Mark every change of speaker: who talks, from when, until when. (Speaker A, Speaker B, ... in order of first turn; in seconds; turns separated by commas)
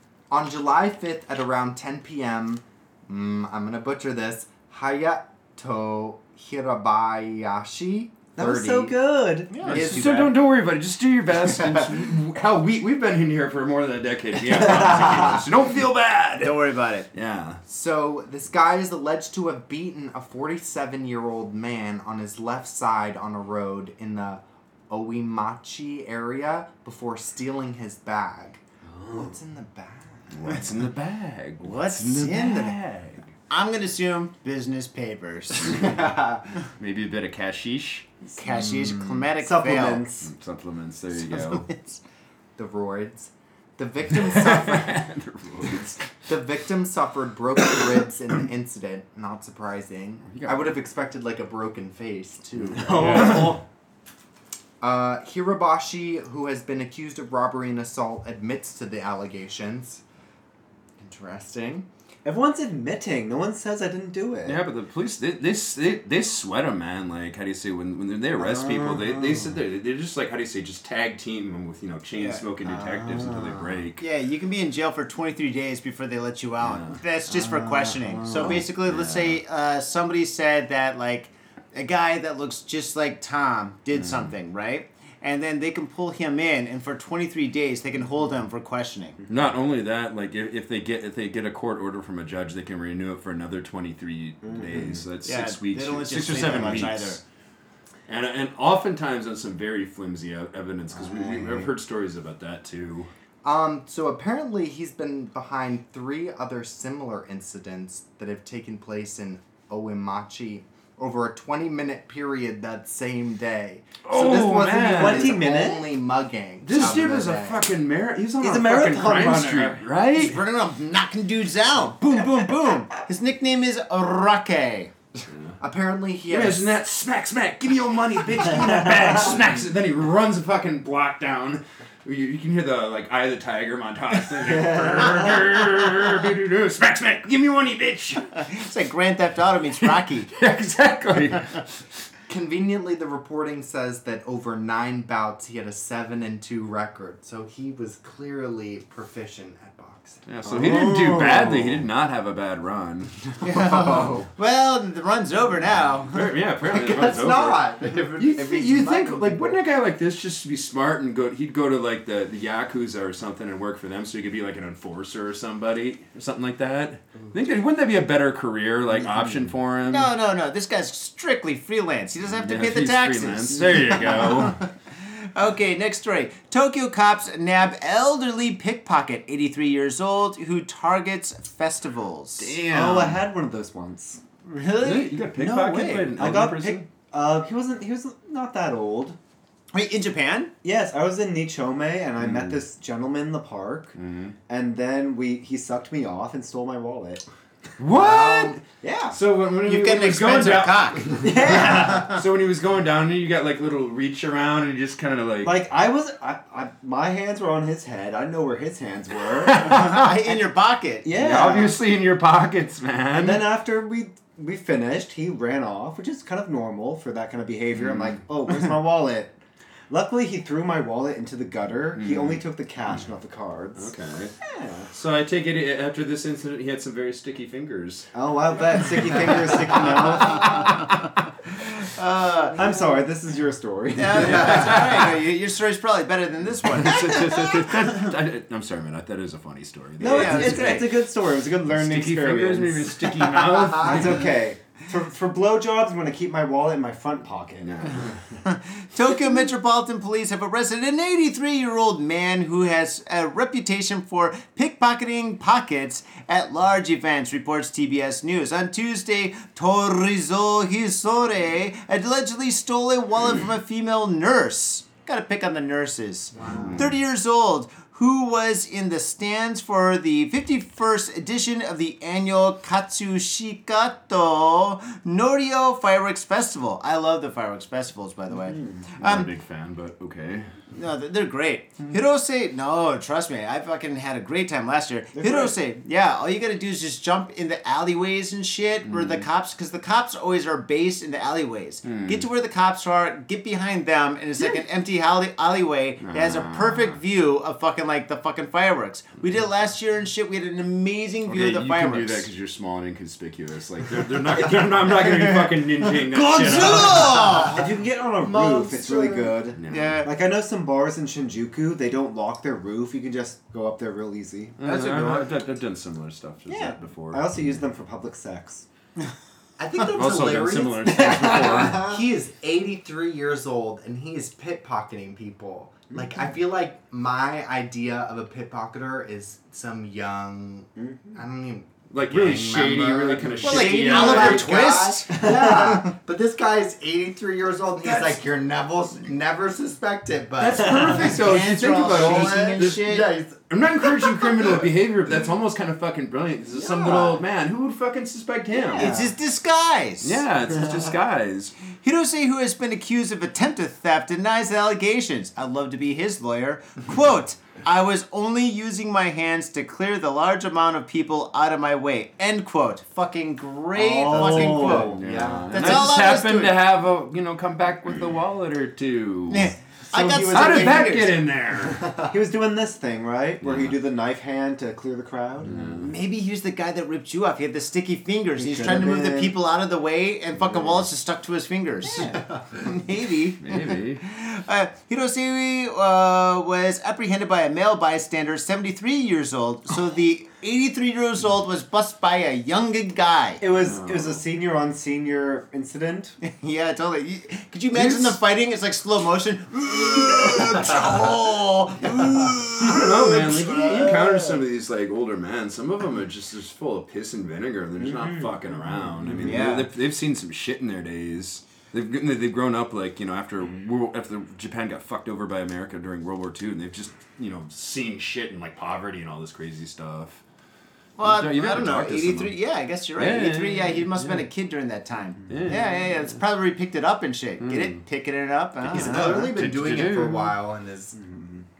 Speaker A: 0.3-8.9, Speaker B: 8.3-10.3, Speaker C: 9.6-16.6, Speaker A: 9.6-10.4, Speaker D: 16.4-17.1, Speaker C: 17.1-17.6, Speaker A: 17.7-30.6, Speaker C: 30.3-33.2, Speaker D: 31.6-32.8, Speaker D: 33.5-35.8, Speaker A: 35.7-36.5, Speaker C: 36.8-38.1, Speaker D: 38.4-40.0, Speaker B: 39.4-40.3, Speaker C: 40.2-41.7, Speaker D: 41.2-42.0, Speaker A: 42.5-45.0, Speaker C: 44.1-46.2, Speaker A: 45.6-53.6, Speaker C: 50.3-50.8, Speaker C: 52.6-53.6, Speaker B: 53.2-53.5, Speaker A: 54.8-60.0, Speaker A: 61.0-61.9, Speaker B: 62.2-64.6, Speaker C: 64.4-74.0, Speaker B: 68.4-69.5, Speaker D: 72.2-72.4, Speaker B: 72.8-73.6, Speaker D: 74.0-89.2, Speaker C: 76.6-77.0, Speaker B: 77.5-78.5, Speaker C: 78.2-79.4, Speaker C: 83.9-84.3, Speaker C: 89.3-97.2, Speaker B: 94.4-95.0, Speaker D: 95.2-97.2, Speaker C: 98.1-103.1, Speaker B: 100.9-101.7, Speaker A: 103.4-117.7, Speaker C: 114.0-115.4, Speaker B: 114.1-115.9, Speaker C: 116.6-120.4, Speaker B: 118.4-119.8, Speaker D: 120.1-124.9, Speaker C: 125.3-125.6, Speaker A: 125.6-126.7, Speaker C: 126.3-138.4, Speaker D: 138.3-140.3, Speaker C: 139.8-141.8, Speaker A: 142.3-150.2, Speaker C: 150.2-153.3, Speaker B: 150.4-151.8, Speaker D: 153.4-156.2, Speaker A: 153.4-154.3, Speaker C: 154.0-154.2, Speaker C: 156.1-170.1, Speaker A: 156.6-159.6, Speaker D: 169.9-182.5, Speaker C: 172.3-174.6, Speaker C: 182.4-183.2, Speaker B: 182.7-184.2, Speaker D: 184.4-186.2, Speaker C: 184.8-186.8, Speaker B: 186.1-189.2, Speaker D: 189.7-190.5, Speaker B: 190.6-194.0, Speaker C: 192.2-192.6, Speaker C: 193.9-194.3, Speaker B: 194.5-197.2, Speaker C: 197.8-198.6, Speaker A: 197.9-198.6, Speaker B: 198.8-199.2, Speaker C: 199.1-205.6, Speaker D: 199.6-202.2, Speaker B: 201.2-202.2, Speaker B: 205.4-209.9, Speaker C: 209.5-210.1, Speaker D: 209.6-211.1, Speaker B: 211.0-211.8, Speaker C: 211.1-213.5, Speaker B: 213.1-224.9, Speaker C: 217.7-218.2, Speaker C: 221.9-222.4, Speaker C: 223.8-224.3, Speaker C: 224.9-228.1, Speaker B: 228.1-230.6, Speaker C: 229.1-230.8, Speaker D: 230.3-230.8, Speaker D: 231.5-232.6, Speaker B: 232.5-234.8, Speaker D: 233.9-237.7, Speaker C: 234.2-235.2, Speaker C: 236.7-244.2, Speaker B: 240.0-248.1, Speaker D: 240.0-240.8, Speaker C: 247.6-248.2, Speaker D: 248.4-279.3, Speaker A: 266.3-266.9, Speaker C: 266.4-266.9, Speaker B: 278.4-278.8, Speaker C: 279.0-280.6, Speaker D: 280.7-302.3, Speaker B: 285.1-285.6, Speaker C: 288.8-289.2, Speaker C: 291.8-292.3, Speaker C: 296.0-297.0, Speaker C: 301.2-307.3, Speaker D: 306.1-307.6, Speaker B: 306.5-314.5, Speaker A: 308.2-309.4, Speaker C: 309.6-310.0, Speaker D: 309.7-310.1, Speaker C: 314.6-317.3, Speaker D: 314.6-315.3, Speaker B: 316.5-318.7, Speaker A: 319.6-341.2, Speaker C: 319.9-321.9, Speaker B: 321.4-321.8, Speaker B: 330.8-331.1, Speaker C: 331.9-334.9, Speaker D: 333.4-335.2, Speaker B: 335.2-335.8, Speaker C: 340.4-342.9, Speaker D: 340.8-343.1, Speaker A: 341.9-343.4, Speaker C: 343.5-348.9, Speaker A: 346.6-347.2, Speaker A: 348.7-349.1, Speaker D: 348.7-350.2, Speaker C: 350.0-351.6, Speaker D: 351.8-364.9, Speaker B: 363.7-365.4, Speaker C: 364.1-369.5, Speaker A: 364.7-365.9, Speaker D: 365.5-366.6, Speaker D: 369.3-371.1, Speaker B: 369.9-371.1, Speaker C: 370.2-371.8, Speaker A: 371.8-372.1, Speaker B: 372.0-375.6, Speaker C: 373.4-373.8, Speaker C: 375.4-375.9, Speaker D: 375.8-393.4, Speaker B: 378.4-379.4, Speaker C: 383.4-384.0, Speaker B: 393.4-396.1, Speaker C: 393.6-394.2, Speaker D: 396.2-404.3, Speaker C: 397.7-398.2, Speaker C: 402.6-420.2, Speaker B: 407.9-409.5, Speaker D: 409.2-409.7, Speaker D: 421.0-429.2, Speaker C: 421.0-422.4, Speaker C: 422.9-424.2, Speaker C: 425.3-426.2, Speaker C: 427.4-427.8, Speaker C: 428.6-430.4, Speaker A: 428.7-431.0, Speaker B: 431.0-431.4